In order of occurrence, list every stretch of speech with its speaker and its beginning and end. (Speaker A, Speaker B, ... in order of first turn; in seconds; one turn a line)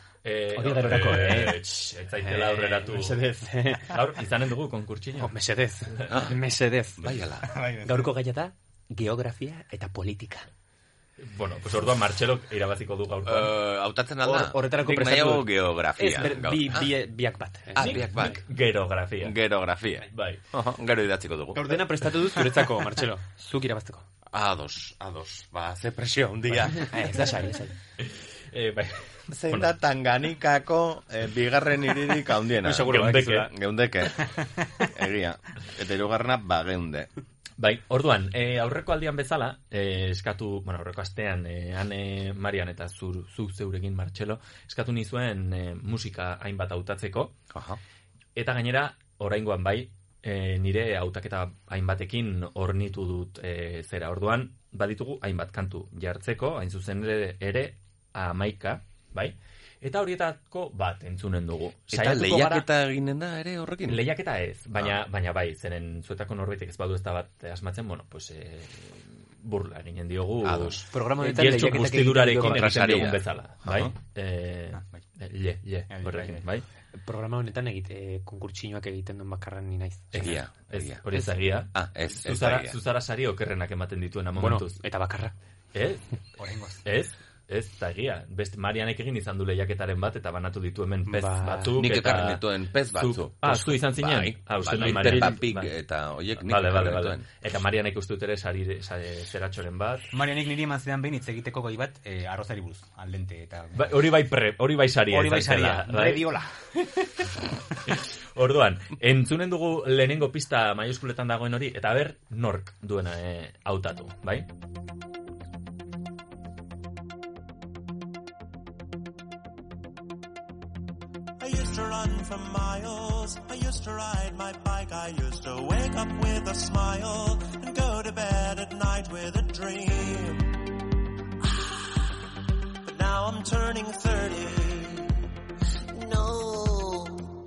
Speaker A: 0.2-3.2
Speaker B: 0.6-1.6
Speaker B: 2.2-3.9
Speaker A: 3.9-5.3
Speaker B: 5.2-7.1
Speaker C: 6.1-6.4
Speaker C: 7.0-7.5
Speaker D: 7.4-8.1
Speaker B: 7.9-10.5
Speaker A: 11.2-13.5
Speaker C: 13.3-16.9
Speaker B: 14.2-18.1
Speaker C: 17.7-18.4
Speaker A: 17.8-19.4
Speaker C: 19.2-21.8
Speaker A: 20.1-20.4
Speaker B: 21.5-24.1
Speaker C: 24.3-26.9
Speaker B: 26.7-27.8
Speaker A: 28.0-29.7
Speaker C: 29.3-34.3
Speaker B: 32.6-33.5
Speaker A: 32.9-33.5
Speaker C: 34.8-37.1
Speaker A: 37.6-47.4
Speaker C: 47.5-47.8
Speaker A: 48.4-62.7
Speaker C: 61.9-64.0
Speaker A: 63.9-76.7
Speaker C: 70.4-70.8
Speaker B: 70.9-72.9
Speaker C: 72.4-73.9
Speaker D: 74.7-75.0
Speaker D: 75.9-76.4
Speaker B: 77.0-80.2
Speaker C: 80.1-81.0
Speaker A: 80.1-84.8
Speaker C: 81.7-82.8
Speaker B: 84.4-85.3
Speaker A: 85.7-86.0
Speaker D: 86.4-86.8
Speaker A: 86.8-92.4
Speaker B: 91.1-91.7
Speaker C: 91.8-97.2
Speaker A: 93.0-95.7
Speaker B: 94.8-95.4
Speaker A: 96.4-100.1
Speaker D: 100.1-103.9
Speaker A: 103.8-106.2
Speaker D: 105.1-107.1
Speaker A: 107.9-114.5
Speaker E: 121.4-130.5
Speaker E: 132.9-135.1
Speaker E: 135.9-137.3